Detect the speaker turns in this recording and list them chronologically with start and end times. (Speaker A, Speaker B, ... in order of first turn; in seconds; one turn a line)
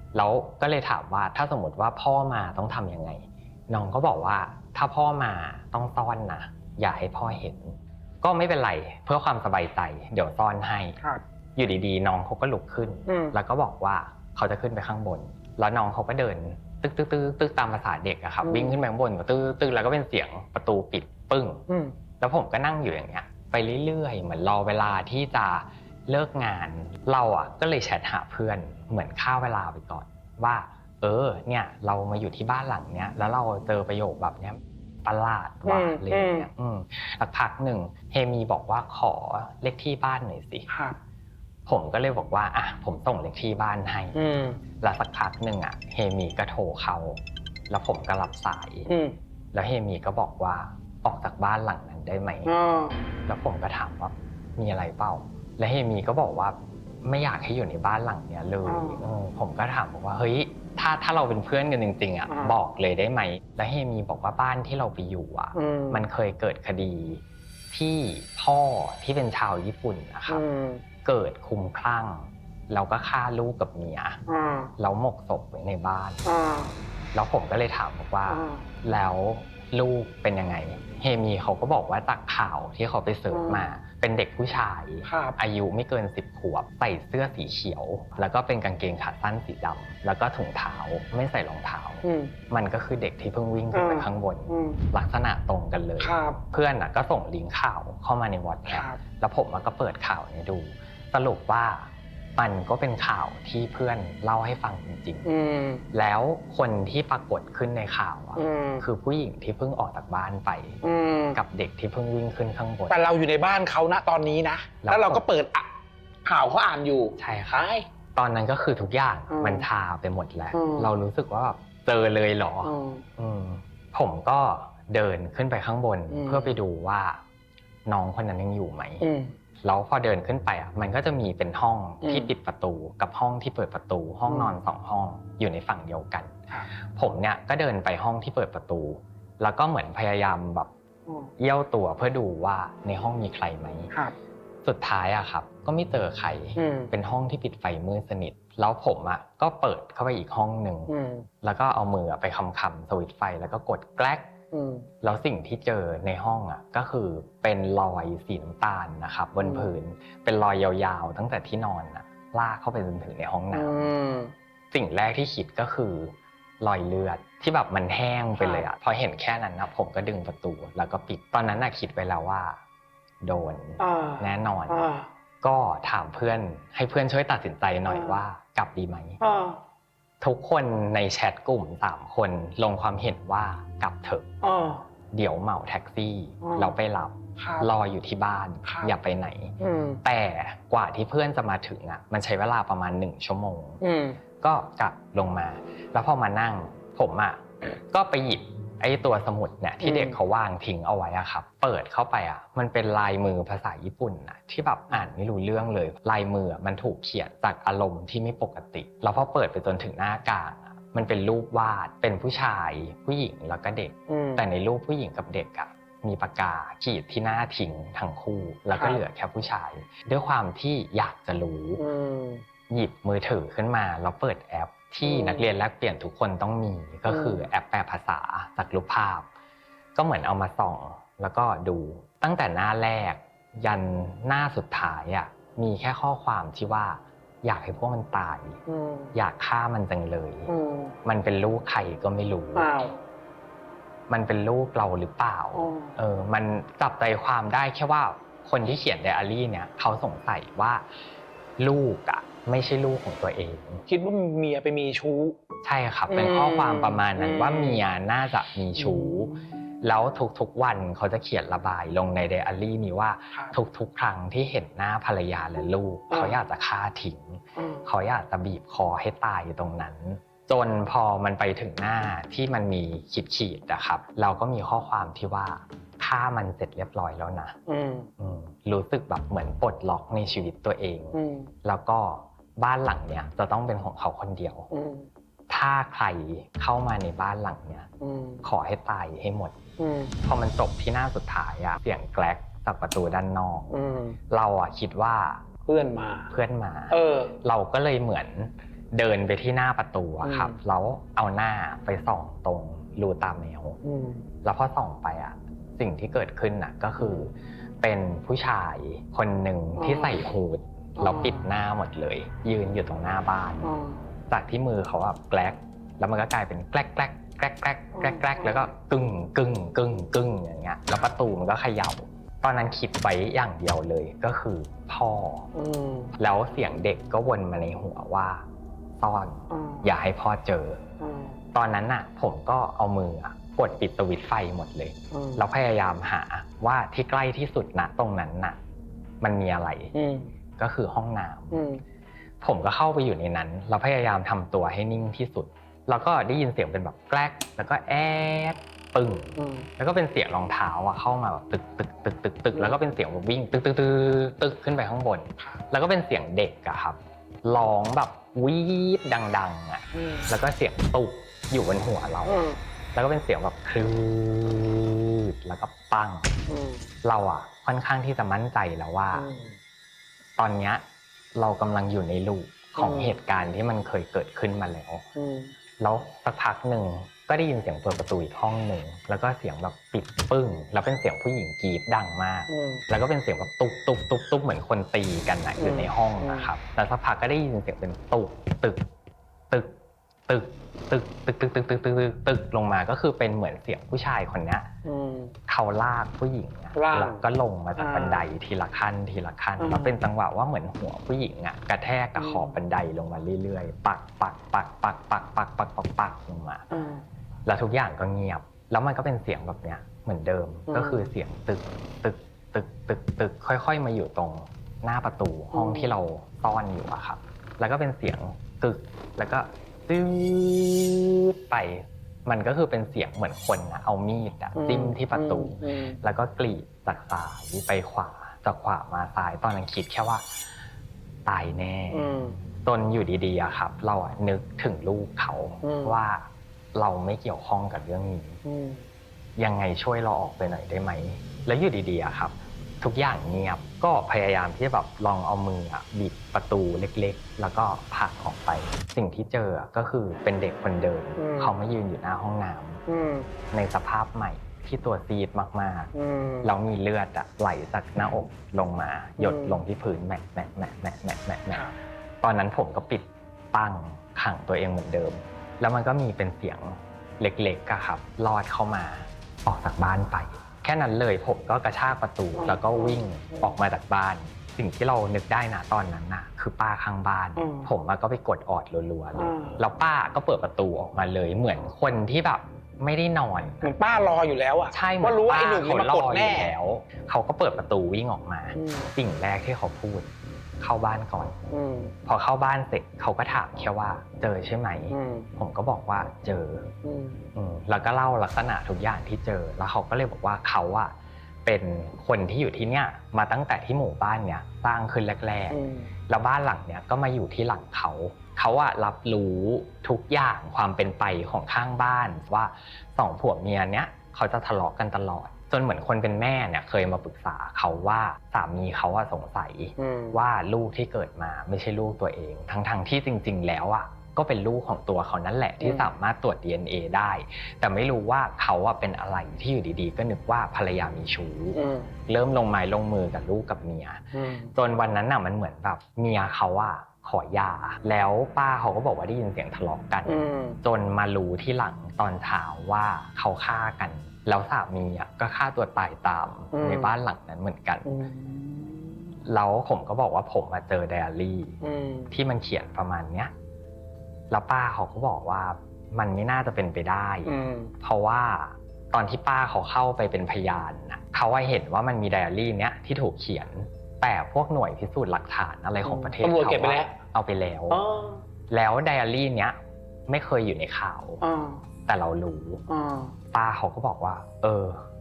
Speaker A: 0.1-11.0
Speaker A: 11.6-21.6
Speaker B: 13.1-13.4
Speaker B: 18.4-18.8
Speaker B: 21.7-21.9
Speaker A: 22.2-40.7
Speaker B: 35.7-36.5
Speaker B: 40.7-41.0
Speaker A: 41.7-44.2
Speaker B: 44.1-44.6
Speaker A: 44.8-48.9
Speaker B: 48.9-49.2
Speaker A: 49.5-52.5
Speaker B: 52.5-53.0
Speaker A: 53.3-70.4
Speaker B: 58.6-59.0
Speaker B: 62.3-62.6
Speaker B: 65.5-66.0
Speaker B: 70.3-70.8
Speaker A: 71.0-74.2
Speaker B: 74.3-74.7
Speaker A: 74.8-76.2
Speaker B: 76.2-76.8
Speaker A: 77.1-105.3
Speaker B: 78.3-78.6
Speaker B: 83.3-83.7
Speaker B: 85.1-85.4
Speaker B: 92.0-92.3
Speaker B: 93.7-94.8
Speaker B: 96.0-96.4
Speaker B: 98.7-99.0
Speaker B: 105.2-105.8
Speaker A: 105.9-110.8
Speaker B: 108.4-108.8
Speaker B: 110.8-111.4
Speaker A: 111.3-113.0
Speaker B: 112.9-115.7
Speaker A: 114.8-115.3
Speaker B: 116.2-117.9
Speaker A: 117.2-127.2
Speaker B: 119.3-119.7
Speaker B: 120.5-120.9
Speaker B: 122.7-123.0
Speaker B: 126.1-126.6
Speaker A: 127.9-129.1
Speaker B: 129.0-129.3
Speaker A: 129.6-136.3
Speaker B: 132.0-132.3
Speaker B: 134.3-134.6
Speaker A: 136.9-140.7
Speaker A: 141.4-143.9
Speaker A: 144.6-154.3
Speaker B: 146.6-146.9
Speaker B: 150.9-151.3
Speaker B: 154.5-154.9
Speaker A: 155.0-163.9
Speaker B: 159.4-159.7
Speaker B: 163.5-164.3
Speaker A: 164.7-172.6
Speaker B: 168.4-168.7
Speaker A: 173.2-179.2
Speaker B: 173.8-175.1
Speaker B: 177.9-178.2
Speaker B: 179.2-179.6
Speaker A: 180.2-184.3
Speaker B: 184.4-184.8
Speaker A: 185.1-193.8
Speaker B: 186.4-186.8
Speaker B: 187.4-187.7
Speaker B: 188.7-188.9
Speaker B: 189.6-190.0
Speaker B: 193.8-194.2
Speaker A: 194.4-221.8
Speaker B: 199.8-200.2
Speaker B: 214.1-214.4
Speaker B: 218.7-219.0
Speaker B: 221.8-222.4
Speaker A: 222.7-229.3
Speaker B: 225.0-225.5
Speaker B: 227.1-227.4
Speaker A: 229.9-238.6
Speaker B: 238.7-239.1
Speaker A: 239.1-240.5
Speaker B: 240.5-240.9
Speaker A: 241.1-242.7
Speaker B: 242.6-243.0
Speaker A: 244.1-250.8
Speaker B: 245.5-245.9
Speaker A: 251.6-253.8
Speaker B: 253.9-255.4
Speaker A: 255.6-277.6
Speaker B: 256.1-257.8
Speaker B: 258.8-259.4
Speaker B: 266.1-266.4
Speaker B: 267.6-267.9
Speaker B: 277.7-278.1
Speaker A: 278.2-284.7
Speaker B: 281.1-281.5
Speaker B: 284.7-285.1
Speaker A: 285.5-287.9
Speaker B: 288.0-288.4
Speaker A: 288.4-289.6
Speaker B: 289.8-290.1
Speaker A: 290.2-293.7
Speaker B: 293.7-294.2
Speaker A: 294.3-295.5
Speaker B: 295.7-296.3
Speaker A: 296.3-303.8
Speaker B: 296.9-297.4
Speaker B: 300.2-300.6
Speaker B: 303.8-304.2
Speaker A: 304.4-313.7
Speaker B: 309.8-310.1
Speaker B: 311.0-311.4
Speaker B: 313.6-314.0
Speaker A: 314.3-325.5
Speaker B: 318.0-318.6
Speaker B: 325.5-326.1
Speaker A: 326.2-328.4
Speaker A: 329.0-330.9
Speaker B: 329.5-329.9
Speaker B: 331.0-331.4
Speaker A: 331.5-338.6
Speaker B: 335.1-335.4
Speaker A: 339.2-339.9
Speaker B: 339.9-340.3
Speaker A: 340.6-341.7
Speaker B: 341.5-341.8
Speaker A: 342.4-366.4
Speaker B: 349.4-349.7
Speaker B: 359.9-360.2
Speaker B: 362.3-362.6
Speaker B: 366.5-366.8
Speaker A: 367.0-369.3
Speaker B: 369.2-369.5
Speaker A: 370.4-370.8
Speaker A: 371.4-375.1
Speaker B: 372.8-373.1
Speaker B: 375.2-375.5
Speaker A: 375.8-388.9
Speaker B: 382.5-382.8
Speaker B: 385.6-386.5
Speaker A: 389.5-389.8
Speaker A: 390.3-394.7
Speaker B: 394.9-395.4
Speaker A: 395.5-406.7
Speaker B: 396.7-397.2
Speaker B: 397.8-398.3
Speaker B: 399.6-400.0
Speaker B: 402.2-402.6
Speaker B: 406.7-407.0
Speaker A: 407.5-430.3
Speaker B: 410.7-411.1
Speaker B: 415.5-415.9
Speaker B: 424.6-426.0
Speaker A: 431.3-438.4
Speaker B: 431.9-432.4
Speaker B: 435.6-435.9
Speaker B: 438.4-438.9
Speaker A: 439.4-452.8
Speaker B: 451.2-451.6
Speaker B: 452.9-453.3
Speaker A: 453.5-455.9
Speaker B: 455.9-456.5
Speaker A: 456.4-461.7
Speaker B: 459.2-459.6
Speaker A: 462.2-483.8
Speaker B: 472.4-473.5
Speaker B: 477.4-477.7
Speaker B: 479.2-479.6
Speaker B: 483.6-486.5
Speaker A: 484.7-491.4
Speaker B: 488.6-488.9
Speaker B: 491.5-491.9
Speaker A: 492.1-496.7
Speaker B: 494.9-495.3
Speaker B: 496.8-497.2
Speaker A: 497.4-500.9
Speaker A: 501.4-547.9
Speaker B: 505.5-505.9
Speaker B: 519.8-520.2
Speaker B: 525.6-525.9
Speaker B: 531.5-531.9
Speaker B: 534.1-534.5
Speaker B: 540.0-540.6
Speaker B: 546.5-547.0
Speaker B: 547.9-549.1
Speaker A: 549.2-551.6
Speaker B: 551.6-552.1
Speaker A: 552.1-553.3
Speaker A: 554.3-567.9
Speaker B: 557.3-557.7
Speaker B: 565.9-567.0
Speaker B: 567.7-568.2
Speaker A: 568.5-569.6
Speaker A: 570.1-571.2
Speaker B: 571.2-571.6
Speaker A: 571.9-572.6
Speaker B: 572.7-573.1
Speaker A: 573.3-574.8